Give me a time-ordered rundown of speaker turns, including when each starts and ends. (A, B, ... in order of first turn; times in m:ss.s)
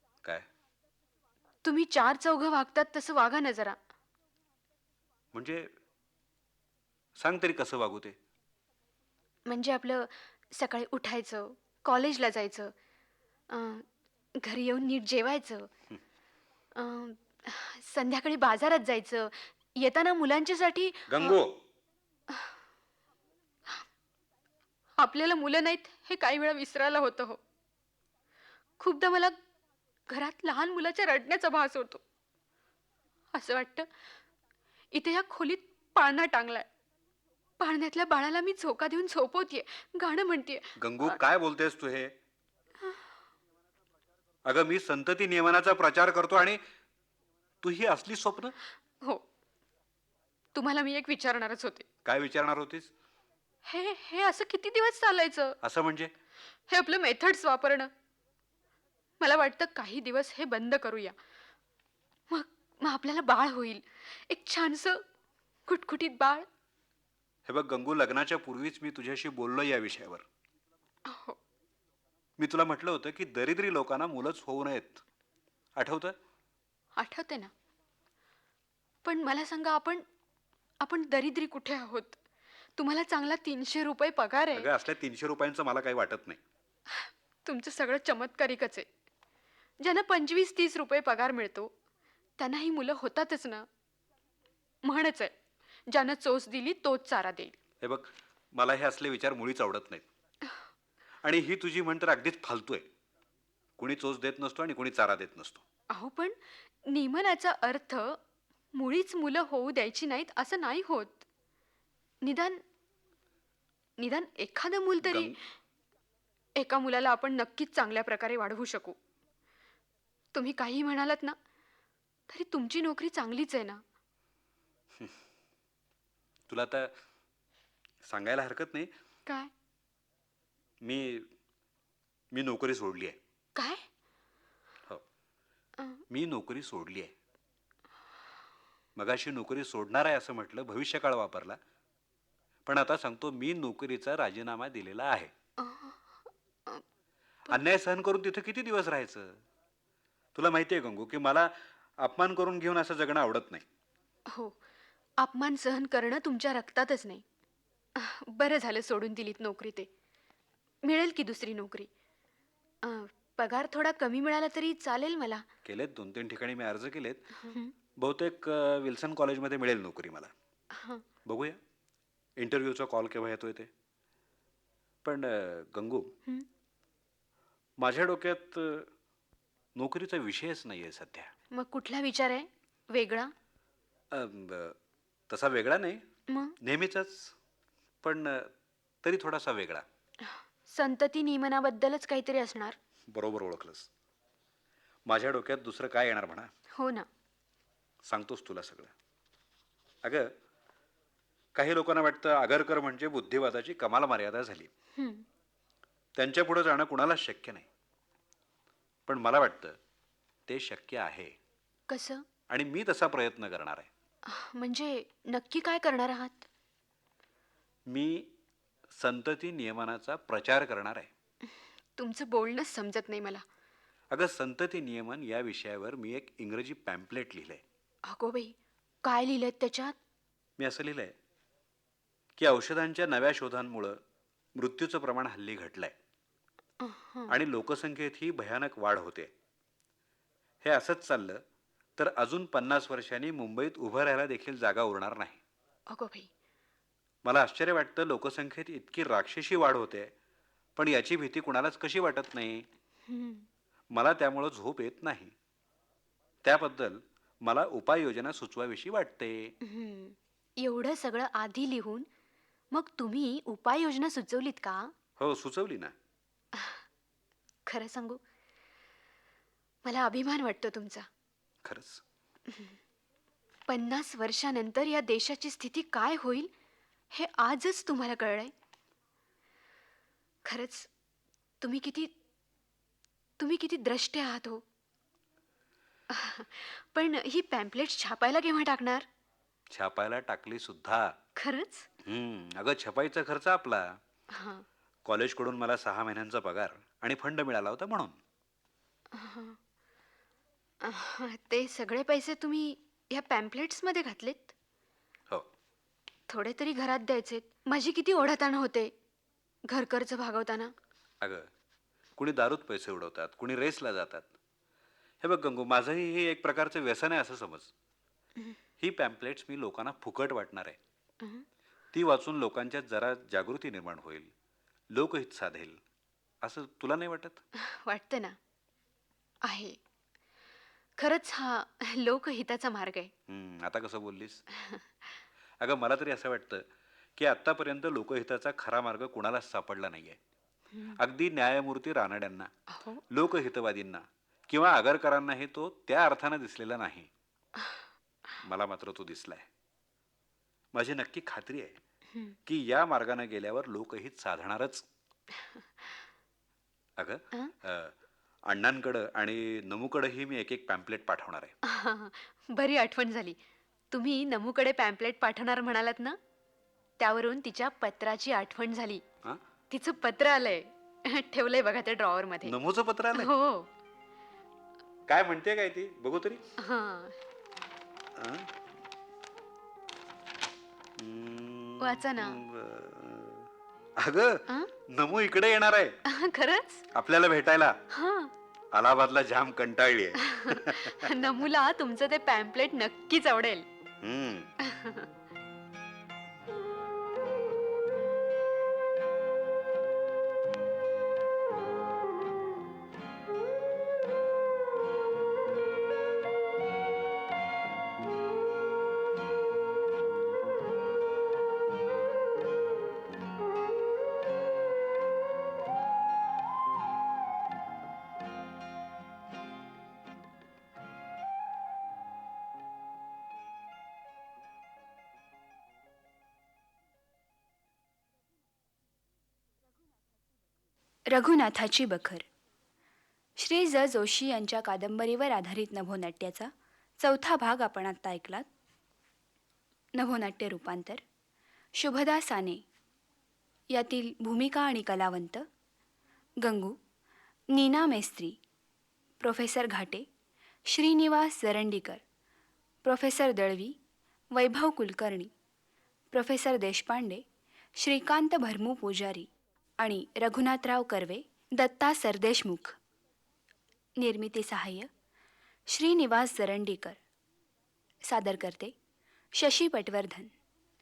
0:01.6-0:03.8 A
0:05.3-0:05.7 B
0:07.2-0:08.2 B
0:09.5-0:12.7 A
0:13.5-0:13.8 A
0:14.4-0:15.7 A
0:16.8-0:21.4 A
0:21.1-0:21.6 B
0:25.0-0:27.4 A
0:28.8-0:29.4 A
0:30.1-0:32.0 A
0:33.3-0:33.9 A
0:34.9-0:36.7 A
0:37.6-0:41.2 A
0:40.8-0:42.1 B
0:44.4-0:46.6 B
0:47.6-0:48.6 B
0:50.5-0:51.8 A
0:52.0-0:52.9 B
0:53.6-0:55.6 A
0:55.6-0:56.1 B
0:56.7-0:57.9 A
0:59.2-1:01.1 A
1:02.3-1:05.0 A
1:05.7-1:06.5 A
1:07.4-1:10.2 B
1:11.1-1:11.4 A
1:12.4-1:15.0 B
1:15.8-1:16.2 B
1:17.0-1:17.5 A
1:19.0-1:20.0 A
1:20.8-1:22.2 A
1:22.8-1:24.7 A
1:24.5-1:26.4 B
1:26.9-1:28.9 A
1:29.8-1:31.7 A
1:32.4-1:33.6 A
1:34.8-1:35.3 A
1:35.9-1:37.6 A
1:37.8-1:40.0 B
1:41.2-1:42.9 B
1:43.8-1:45.6 B
1:45.9-1:48.2 A
1:48.7-1:51.2 A
1:52.2-1:52.6 A
1:54.0-1:55.4 A
1:55.0-1:55.3 B
1:56.6-1:59.0 A
2:00.3-2:01.4 A
2:02.3-2:03.8 A
2:06.5-2:06.9 B
2:08.0-2:08.9 B
2:10.8-2:11.3 B
2:12.3-2:13.2 B
2:13.6-2:13.8 A
2:16.1-2:17.1 B
2:19.0-2:21.6 B
2:22.6-2:25.3 B
2:25.6-2:26.1 A
2:27.5-2:29.4 B
2:30.3-2:33.6 B
2:34.3-2:34.6 A
2:35.2-2:37.2 A
2:38.0-2:39.9 A
2:40.8-2:41.9 A
2:42.8-2:45.4 A
2:45.6-2:47.3 B
2:47.4-2:47.7 A
2:48.0-2:50.3 B
2:50.7-2:51.0 A
2:51.2-2:51.6 B
2:52.4-2:53.7 B
2:55.0-2:56.1 B
2:57.8-2:58.9 B
2:59.8-3:01.3 B
3:01.5-3:03.3 A
3:04.1-3:04.8 B
3:05.3-3:06.0 B
3:06.3-3:06.5 A
3:06.6-3:07.3 B
3:08.0-3:08.5 B
3:09.0-3:09.8 B
3:10.3-3:12.8 A
3:13.1-3:13.9 B
3:15.1-3:16.5 B
3:16.7-3:17.1 A
3:18.1-3:18.9 B
3:20.0-3:20.3 B
3:21.5-3:24.7 B
3:25.0-3:25.2 A
3:26.2-3:27.7 B
3:29.1-3:29.8 B
3:30.5-3:31.4 B
3:31.9-3:32.2 A
3:32.5-3:33.9 B
3:34.3-3:36.5 A
3:37.9-3:38.3 B
3:38.9-3:41.1 B
3:42.0-3:43.4 A
3:44.1-3:47.6 B
3:48.1-3:49.9 A
3:50.6-3:51.1 B
3:52.4-3:54.0 B
3:54.6-3:55.9 B
3:56.8-3:57.3 A
3:57.3-3:59.3 B
4:00.6-4:01.4 B
4:02.0-4:05.4 B
4:05.9-4:06.3 A
4:07.2-4:10.1 B
4:10.8-4:12.6 B
4:13.1-4:13.5 A
4:13.9-4:15.3 B
4:16.4-4:19.5 B
4:19.6-4:22.0 A
4:22.7-4:24.9 A
4:25.2-4:25.9 B
4:27.7-4:28.2 A
4:29.8-4:31.0 A
4:31.6-4:32.0 B
4:32.5-4:32.8 A
4:33.7-4:36.5 A
4:37.1-4:38.5 A
4:40.4-4:40.9 A
4:41.6-4:42.1 A
4:43.4-4:44.6 A
4:46.1-4:49.0 A
4:49.7-4:51.2 B
4:51.4-4:51.9 A
4:52.0-4:54.0 B
4:54.3-4:54.6 A
4:55.0-4:58.2 B
4:59.1-4:59.6 A
5:00.8-5:04.5 A
5:06.3-5:08.9 A
5:09.7-5:10.7 A
5:11.2-5:11.5 B
5:12.2-5:14.3 B
5:15.2-5:17.7 B
5:18.8-5:20.8 B
5:21.9-5:24.3 B
5:24.9-5:25.8 B
5:26.4-5:27.4 B
5:27.6-5:28.4 A
5:29.4-5:29.8 A
5:31.0-5:33.1 A
5:33.3-5:34.4 B
5:35.6-5:36.6 B
5:37.2-5:40.2 B
5:40.7-5:41.0 A
5:41.0-5:42.5 B
5:42.7-5:43.0 A
5:43.1-5:47.1 B
5:48.4-5:49.5 B
5:50.7-5:51.8 B
5:52.4-5:54.8 B
5:57.0-5:57.9 B
5:58.5-6:01.5 B
6:01.6-6:03.4 A
6:03.9-6:06.2 A
6:07.0-6:09.0 A
6:09.7-6:12.5 A
6:12.4-6:13.3 B
6:13.1-6:13.7 A
6:15.1-6:16.4 B
6:16.6-6:17.2 A
6:18.2-6:18.5 B
6:21.0-6:23.5 B
6:21.8-6:22.4 A
6:24.0-6:26.0 B
6:26.1-6:26.8 A
6:26.9-6:27.8 B
6:27.9-6:28.3 A
6:28.7-6:31.1 B
6:30.4-6:33.6 A
6:34.0-6:34.5 B
6:34.6-6:35.1 A
7:11.1-7:12.2 C
7:13.4-7:18.4 C
7:20.0-7:21.0 C
7:21.8-7:22.6 C
7:23.7-7:25.5 C
7:26.4-7:26.8 C
7:27.5-7:28.4 C
7:29.2-7:30.0 C
7:30.7-7:32.0 C
7:32.8-7:33.8 C
7:34.3-7:35.3 C
7:36.1-7:37.2 C
7:37.8-7:39.3 C
7:39.8-7:42.8 C
7:44.0-7:44.9 C
7:45.7-7:47.0 C
7:48.1-7:48.7 C
7:49.4-7:50.3 C